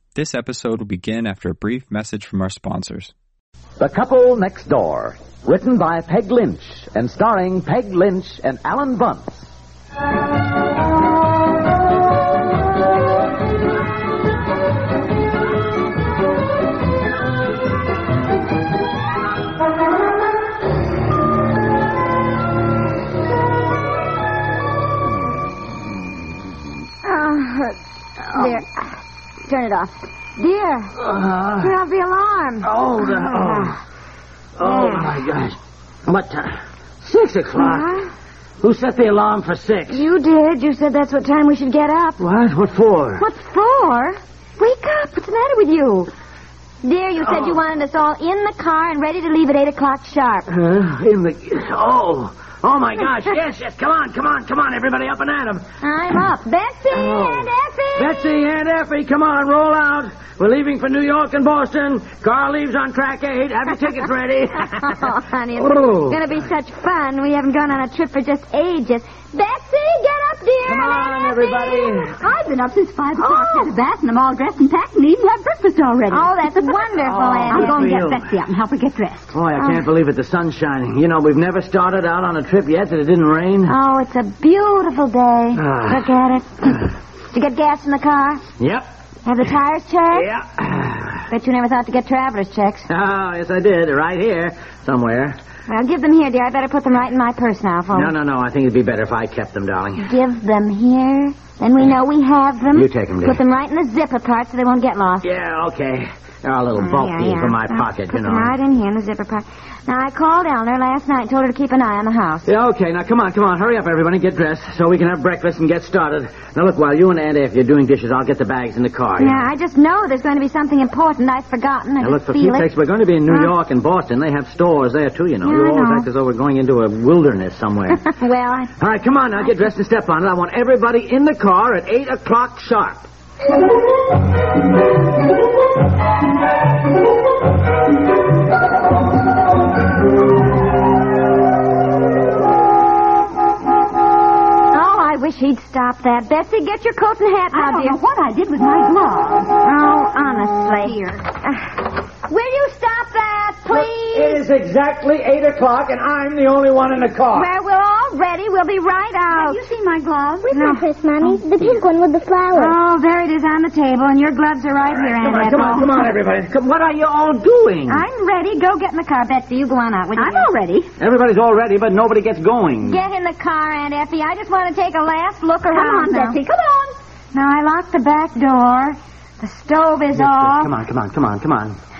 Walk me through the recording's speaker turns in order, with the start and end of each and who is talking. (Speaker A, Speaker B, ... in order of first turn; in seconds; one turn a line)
Speaker A: 0.1-3.1
Speaker B: 3.8-9.5
Speaker C: 27.0-27.8
Speaker C: 28.3-30.9
Speaker D: 31.0-31.7
Speaker C: 31.6-33.7
Speaker D: 32.6-33.8
Speaker D: 34.6-38.0
Speaker C: 34.6-35.0
Speaker C: 37.6-38.1
Speaker D: 38.6-40.0
Speaker C: 39.9-42.2
Speaker D: 42.2-43.2
Speaker C: 43.2-46.1
Speaker C: 46.8-50.5
Speaker D: 50.5-55.6
Speaker C: 55.8-58.4
Speaker D: 56.9-66.2
Speaker C: 64.6-72.0
Speaker D: 70.6-72.2
Speaker E: 72.1-79.4
Speaker C: 73.2-73.8
Speaker C: 76.1-78.0
Speaker D: 77.0-78.3
Speaker D: 79.3-83.7
Speaker C: 83.7-88.4
Speaker D: 85.6-86.2
Speaker D: 88.6-88.9
Speaker C: 89.3-90.3
Speaker D: 90.1-91.3
Speaker C: 91.3-92.9
Speaker D: 92.9-95.4
Speaker C: 95.7-98.1
Speaker D: 97.9-100.2
Speaker C: 100.0-105.3
Speaker D: 102.7-103.4
Speaker D: 105.2-108.5
Speaker C: 106.8-112.5
Speaker D: 112.5-119.5
Speaker C: 119.2-122.7
Speaker D: 122.0-128.0
Speaker C: 123.3-123.5
Speaker C: 125.4-126.1
Speaker C: 127.9-128.7
Speaker D: 128.8-133.1
Speaker C: 144.7-148.0
Speaker E: 147.5-149.6
Speaker C: 149.6-154.4
Speaker E: 150.5-151.2
Speaker D: 153.7-157.5
Speaker C: 157.3-159.6
Speaker E: 159.3-160.5
Speaker F: 160.5-162.8
Speaker C: 160.5-161.4
Speaker C: 162.5-166.1
Speaker D: 164.9-168.0
Speaker C: 167.9-170.5
Speaker E: 170.2-170.9
Speaker D: 171.0-173.0
Speaker C: 172.8-176.4
Speaker E: 175.7-177.0
Speaker C: 177.3-180.7
Speaker D: 180.1-181.8